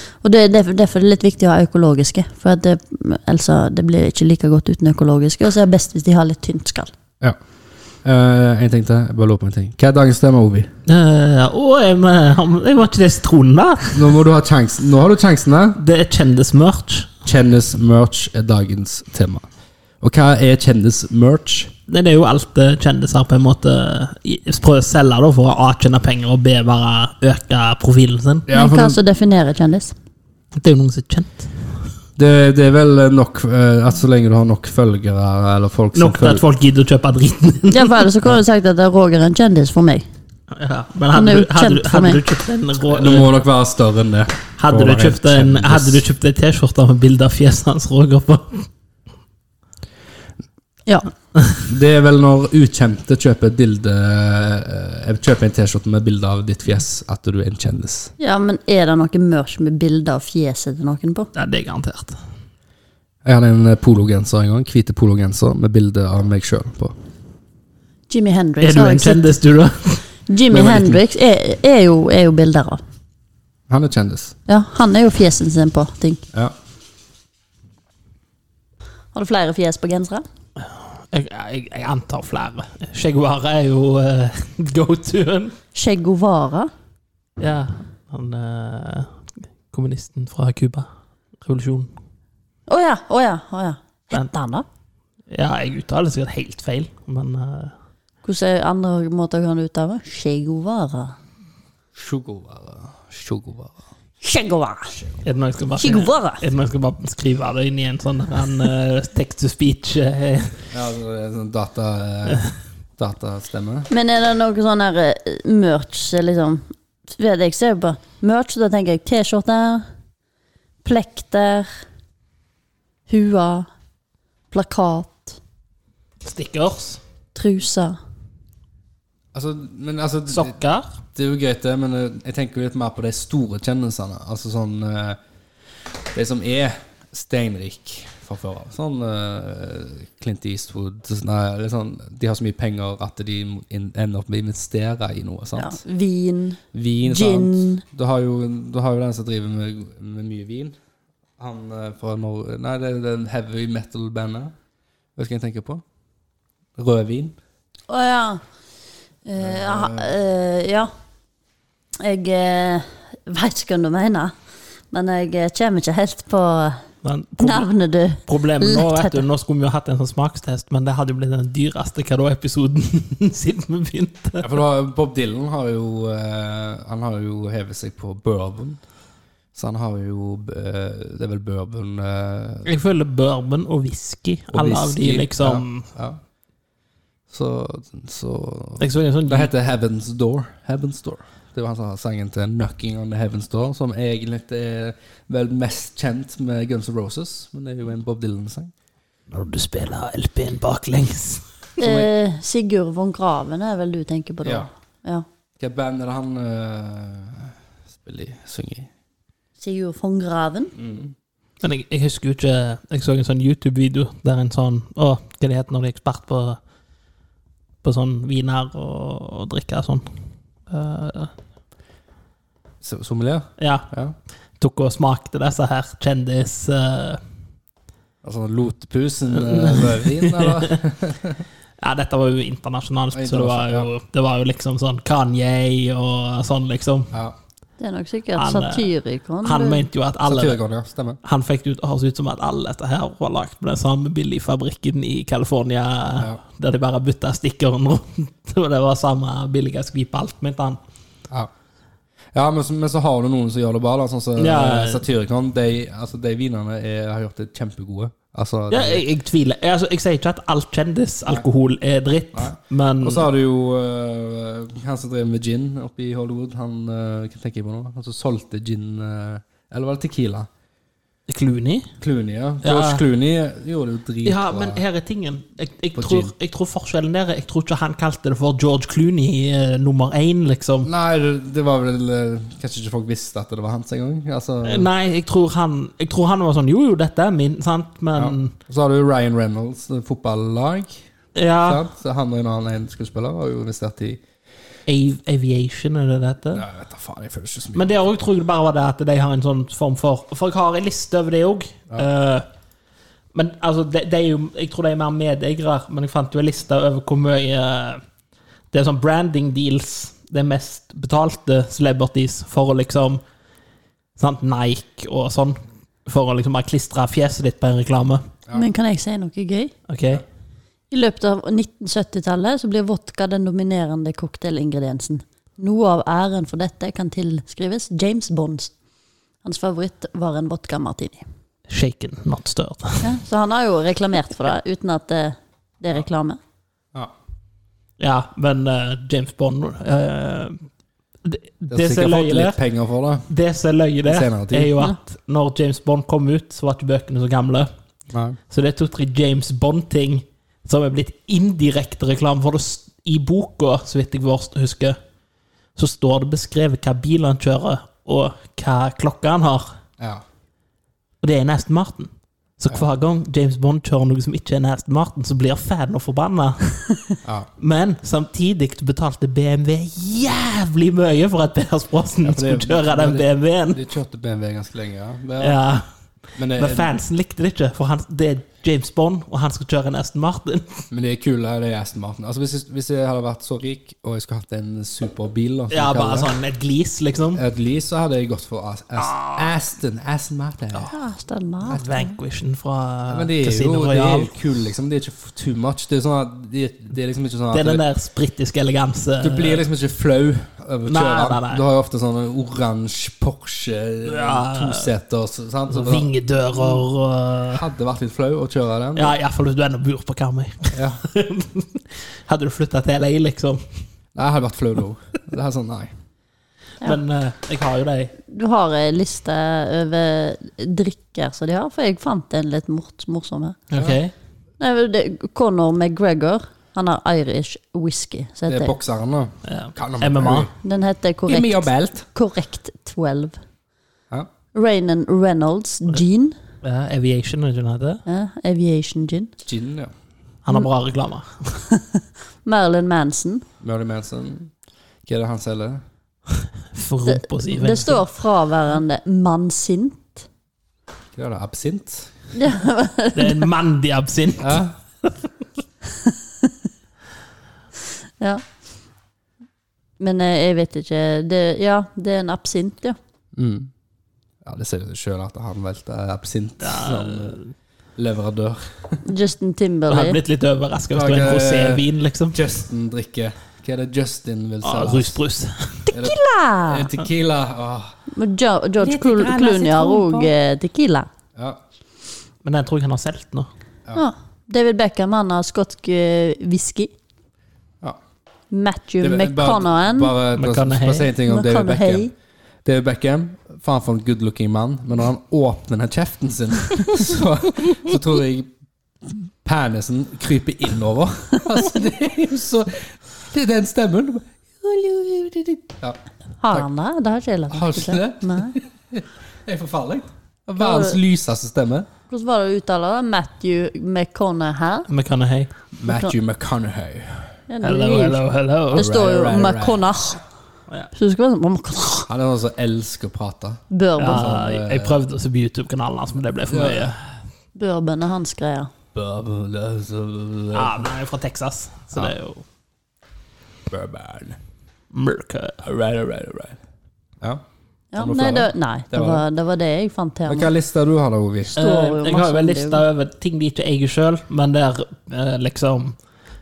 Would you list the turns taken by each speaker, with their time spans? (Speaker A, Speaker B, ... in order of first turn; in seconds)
Speaker A: 0.2-6.9, 28.5-29.9, 37.7-40.0, 41.1-42.2, 58.2-61.3, 68.1-69.3, 70.3-72.8, 74.5-76.2, 79.1-80.2, 85.7-86.7, 92.7-94.7, 98.2-101.1, 104.2-104.9, 105.8-106.4, 113.9-119.8, 120.8-121.7, 123.1-123.7, 124.5-125.4, 127.3-128.0, 145.6-147.8, 157.9-158.4, 159.2-160.9, 162.0-164.3, 164.9-166.8, 167.4-169.2, 201.8-205.2, 209.6-210.7, 237.8-239.8, 318.5-319.7, 320.9-328.7, 329.4-331.2, 333.0-336.4, 390.9-392.1, 418.3-423.6, 424.6-428.7, 430.6-433.4, 434.5-436.4, 438.1-439.3, 441.7-443.4, 447.1-450.2, 452.3-453.5, 456.0-456.5, 460.0-462.9, 469.0-470.2, 475.9-476.9, 478.1-481.1, 483.9-486.9, 488.5-490.1, 491.2-492.1, 506.4-508.6, 510.6-511.0, 512.1-514.9, 515.8-516.1, 517.5-518.2, 518.7-520.2, 520.9-522.1, 523.7-524.4, 527.5-528.7, 537.9-540.5, 541.5-542.8
Speaker B: 8.0-10.7, 13.9-15.8, 17.2-19.4, 20.0-21.7, 28.5-29.0, 32.2-36.4, 42.9-46.0, 51.6-58.1, 63.2-66.9, 70.5-71.0, 73.7-74.3, 102.0-103.8, 110.7-112.5, 113.0-113.9, 129.3-130.6, 131.1-135.2, 136.1-145.8, 146.7-150.8, 151.4-154.5, 155.2-155.8, 156.8-157.4, 159.4-160.1, 174.4-178.8, 179.5-182.7, 184.5-186.2, 187.3-198.7, 201.8-202.1, 205.6-208.9, 210.8-211.1, 222.8-224.1, 228.2-231.4, 233.1-233.9, 240.2-241.2, 252.3-259.0, 262.3-270.5, 272.0-274.8, 275.9-276.3, 280.8-284.9, 288.1-291.0, 291.6-294.2, 296.5-297.9, 341.7-343.3, 344.0-344.7, 348.1-348.4, 367.2-367.5, 372.2-375.6, 376.4-376.9, 380.9-386.3, 387.3-390.9, 393.1-397.8, 399.2-406.1, 407.5-409.1, 410.7-411.0, 414.1-415.9, 428.5-430.5, 431.3-432.1, 439.4-439.9, 443.6-444.5, 445.0-445.8, 451.1-452.1, 454.4-454.8, 463.3-463.7, 464.4-467.4, 468.0-469.0, 470.9-475.2, 475.9-477.9, 489.0-492.1, 492.6-498.5, 499.0-506.0, 507.5-511.9, 515.7-517.4, 518.7-519.9, 522.1-525.0, 526.5-526.9, 528.9-530.9, 533.7-534.4, 535.6-536.6, 538.0-539.2, 540.3-541.5
Speaker C: 10.9-14.1, 15.8-17.1, 21.9-28.5, 30.5-31.5, 35.9-38.1, 40.5-43.3, 44.6-48.7, 61.3-62.2, 68.6-70.0, 80.6-85.5, 87.4-89.2, 89.7-90.9, 91.4-91.9, 95.3-97.7, 105.2-110.6, 126.2-127.0, 130.3-130.9, 167.0-167.7, 168.2-174.6, 182.6-185.9, 188.8-189.5, 199.3-201.4, 211.6-216.6, 217.8-220.1, 220.7-221.3, 223.6-223.9, 224.6-227.2, 229.3-230.8, 231.8-237.1, 238.3-238.9, 239.4-240.6, 241.2-250.8, 254.4-255.0, 258.7-263.3, 271.3-271.9, 272.6-273.0, 274.2-280.9, 284.6-288.5, 291.3-291.8, 294.9-296.6, 297.7-302.4, 303.3-308.0, 308.7-313.2, 314.2-318.3, 319.9-320.2, 331.7-333.0, 338.0-340.6, 341.2-342.6, 343.3-347.7, 348.5-355.0, 355.8-359.7, 361.2-367.0, 367.6-373.8, 375.4-375.9, 376.5-380.8, 385.7-387.4, 389.0-389.5, 391.6-394.3, 397.5-399.6, 400.9-401.6, 404.0-404.9, 405.7-407.6, 408.9-413.6, 416.8-418.1, 423.7-424.1, 429.4-430.5, 436.6-438.0, 440.4-441.6, 446.7-448.0, 453.1-454.6, 466.6-467.5, 469.9-472.4, 474.6-475.9, 478.8-480.3, 482.4-483.5, 490.3-491.1, 514.9-515.5, 517.6-518.9, 524.0-527.0, 530.5-532.4, 534.9-535.6, 541.5-546.0